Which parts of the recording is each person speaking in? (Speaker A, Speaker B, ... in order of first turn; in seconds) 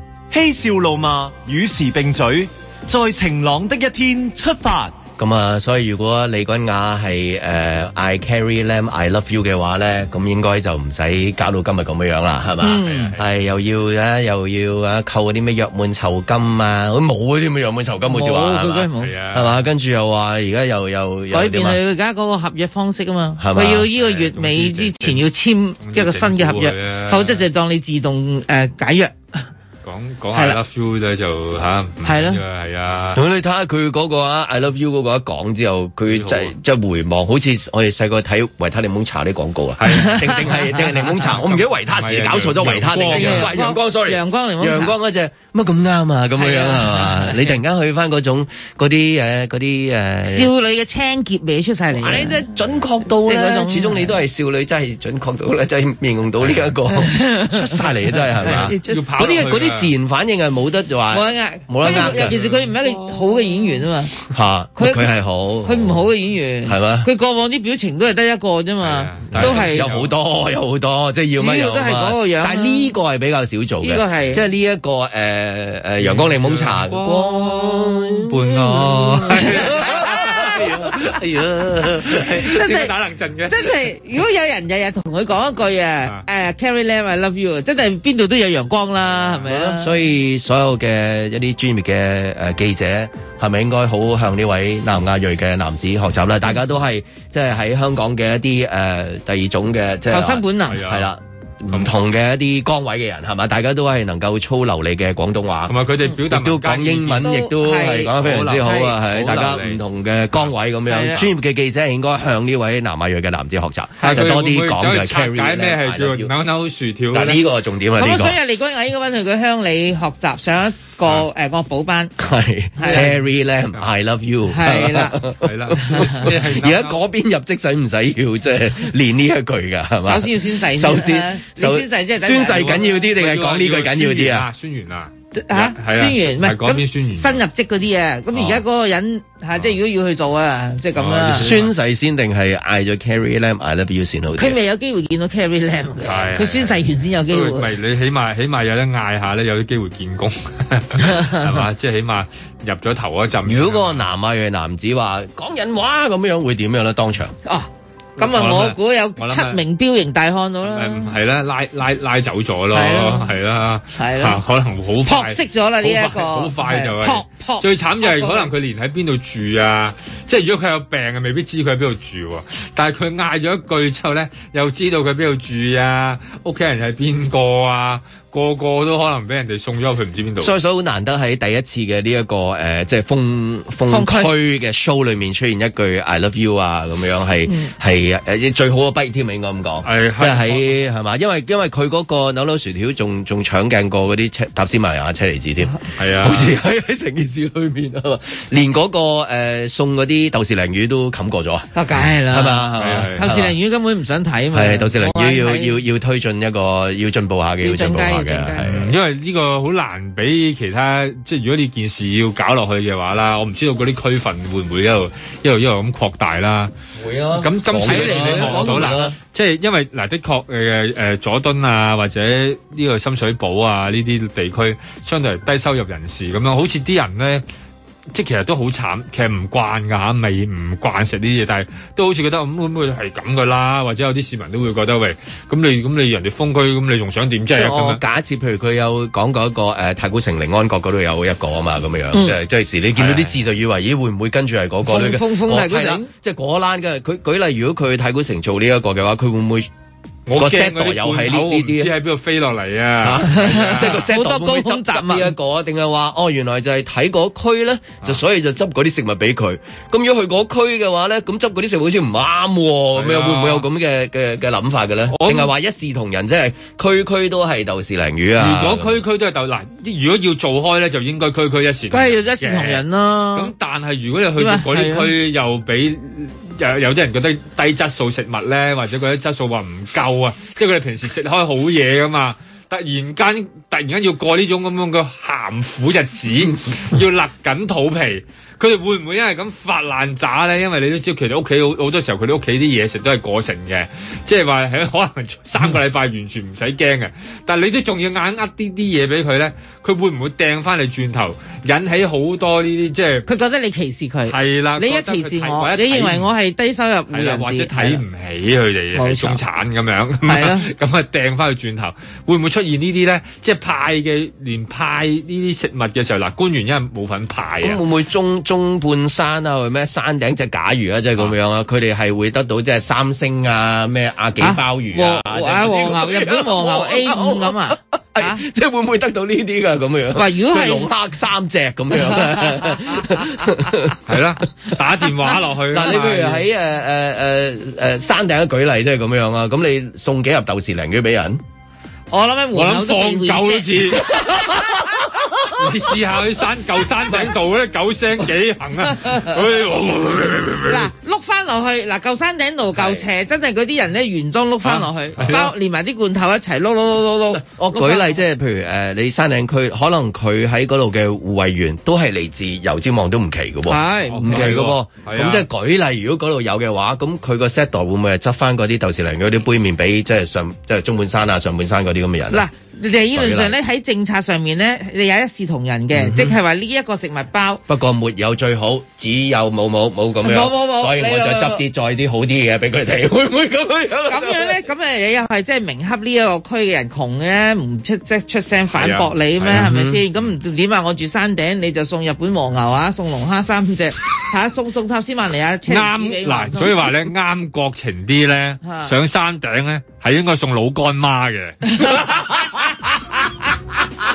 Speaker A: 0.3-5.0
Speaker B: 5.2-21.8, 23.4-23.9, 33.1-50.5, 51.9-62.4, 64.3-66.1, 66.7-67.1, 69.3-82.3, 89.5-105.7, 106.2-116.3, 117.1-118.4, 122.2-134.5, 141.4-144.6, 153.4-157.3, 180.4-201.7, 202.2-203.6, 204.5-208.9, 217.0-219.2, 237.5-249.7, 250.4-251.9, 253.0-269.0, 317.6-334.0, 335.7-341.4, 357.3-372.4, 373.1-373.6, 375.9-376.4, 377.7-384.6, 389.5-390.0
Speaker C: 12.6-13.1, 18.1-19.1, 21.3-29.5, 32.0-32.4, 39.9-41.1, 43.1-45.0, 46.4-47.5, 50.2-52.4, 53.2-54.1, 56.9-57.8, 58.4-59.0, 61.1-64.2, 64.8-65.1, 65.6-69.9, 71.4-72.9, 73.8-74.4, 82.5-82.9, 83.5-90.0, 100.1-100.8, 107.2-108.9, 110.9-111.2, 118.0-122.1, 122.8-123.1, 124.5-125.2, 125.8-126.2, 130.0-132.9, 135.3-141.5, 144.4-147.7, 151.1-151.3, 157.4-161.1, 162.7-163.3, 164.0-164.4, 165.1-168.5, 183.9-184.3, 201.8-205.8, 207.6-208.7, 217.8-219.1, 244.9-246.1, 253.3-255.3, 271.9-273.5, 274.4-275.1, 303.3-308.0, 308.9-309.4, 310.3-310.7, 324.4-328.4, 330.1-330.9, 332.1-332.7, 342.1-344.6, 350.7-358.2, 363.7-364.5, 372.3-377.6, 380.2-381.6, 384.1-396.8, 398.6-398.9, 401.7-402.6
Speaker D: 12.8-13.3, 19.0-19.6, 23.9-25.3, 25.8-27.4, 29.8-33.2, 36.1-36.5, 39.8-40.5, 41.1-43.6, 56.4-56.7, 58.5-59.9, 61.8-63.1, 68.8-70.1, 76.0-83.8, 100.7-101.1, 105.7-107.3, 108.2-109.8, 114.0-117.4, 125.4-127.0, 132.4-137.4, 138.3-138.6, 141.0-141.7, 146.0-154.1, 158.2-159.6, 160.6-180.5, 189.8-190.8, 196.0-196.6, 202.8-203.3, 208.7-216.7, 217.4-227.4, 228.1-238.0, 243.0-243.4, 250.3-254.0, 263.0-263.7, 265.1-265.5, 268.4-303.3, 304.3-306.3, 307.1-317.8, 334.1-336.5, 342.5-344.1, 345.6-350.9, 354.6-355.5, 364.1-365.5, 388.8-389.7, 395.7-402.2